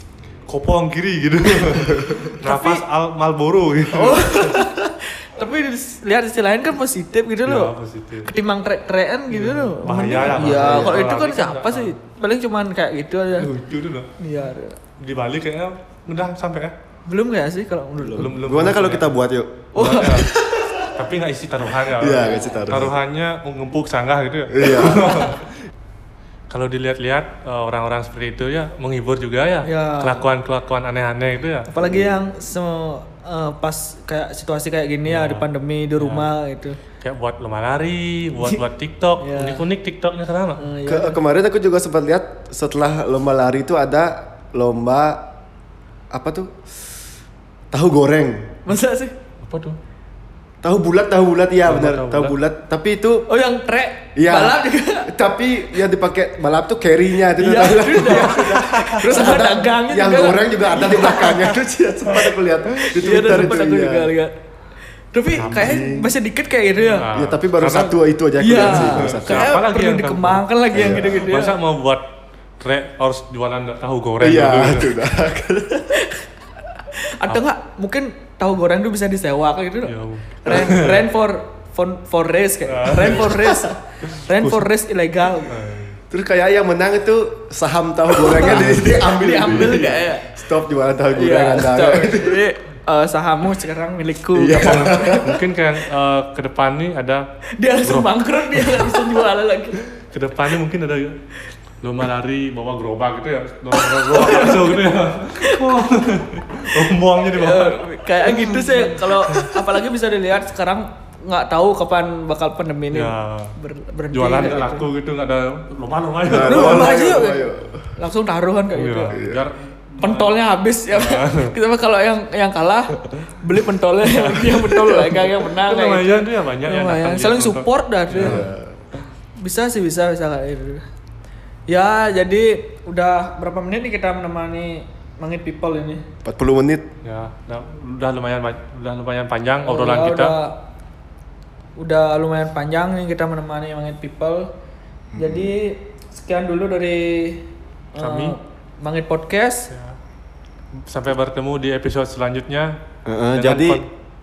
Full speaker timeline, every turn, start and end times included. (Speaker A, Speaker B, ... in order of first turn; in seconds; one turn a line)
Speaker A: 0.5-4.7
Speaker B: 1.6-2.8
Speaker B: 3.9-7.7
Speaker A: 7.5-8.3
Speaker B: 8.2-13.5
Speaker A: 9.3-12.0
Speaker C: 10.4-11.1
Speaker A: 13.4-14.1
Speaker B: 14.2-14.8
Speaker A: 15.0-16.8
Speaker B: 17.1-18.4
Speaker C: 18.0-20.9
Speaker A: 18.2-19.1
Speaker B: 19.7-20.3
Speaker A: 19.8-20.3
Speaker A: 20.9-25.5
Speaker C: 22.0-22.9
Speaker B: 22.1-22.9
Speaker C: 24.5-25.1
Speaker B: 24.9-25.3
Speaker A: 26.5-31.7
Speaker B: 29.6-30.2
Speaker B: 31.7-36.8
Speaker C: 31.8-32.2
Speaker A: 35.1-36.3
Speaker A: 37.0-40.7
Speaker B: 39.2-39.6
Speaker B: 40.6-41.2
Speaker C: 40.9-45.3
Speaker C: 46.1-46.6
Speaker C: 47.7-48.6
Speaker B: 48.7-49.1
Speaker A: 49.4-49.8
Speaker C: 50.6-53.3
Speaker A: 51.7-52.4
Speaker B: 53.3-55.1
Speaker C: 54.2-64.1
Speaker B: 57.4-61.6
Speaker A: 58.1-59.2
Speaker B: 62.6-64.3
Speaker B: 65.1-67.1
Speaker C: 65.3-66.1
Speaker A: 65.4-65.8
Speaker A: 66.8-68.0
Speaker C: 67.1-69.6
Speaker B: 68.4-71.6
Speaker A: 68.5-74.9
Speaker C: 70.7-71.2
Speaker C: 74.2-76.0
Speaker B: 75.9-76.2
Speaker B: 76.8-85.6
Speaker A: 79.9-81.1
Speaker A: 82.7-83.7
Speaker A: 84.3-84.7
Speaker A: 85.5-86.0
Speaker C: 86.1-92.4
Speaker B: 88.2-90.3
Speaker B: 91.1-95.4
Speaker C: 94.3-95.3
Speaker A: 94.5-97.2
Speaker B: 97.6-99.8
Speaker A: 97.8-99.1
Speaker A: 100.1-101.2
Speaker A: 101.8-109.6
Speaker B: 103.7-105.8
Speaker B: 107.3-114.9
Speaker A: 112.9-113.6
Speaker A: 114.1-117.0
Speaker C: 116.3-117.9
Speaker B: 116.3-119.2
Speaker A: 118.8-120.4
Speaker C: 119.1-119.5
Speaker B: 120.0-128.5
Speaker A: 120.9-121.5
Speaker A: 124.0-128.5
Speaker C: 128.2-128.8
Speaker B: 129.4-130.8
Speaker B: 131.7-136.1
Speaker C: 136.2-136.9
Speaker A: 137.0-140.4
Speaker B: 139.7-140.6
Speaker B: 141.8-144.5
Speaker C: 145.1-145.5
Speaker B: 145.2-149.7
Speaker A: 148.0-148.4
Speaker A: 149.7-150.0
Speaker A: 150.9-152.7
Speaker C: 153.1-153.8
Speaker A: 153.3-153.8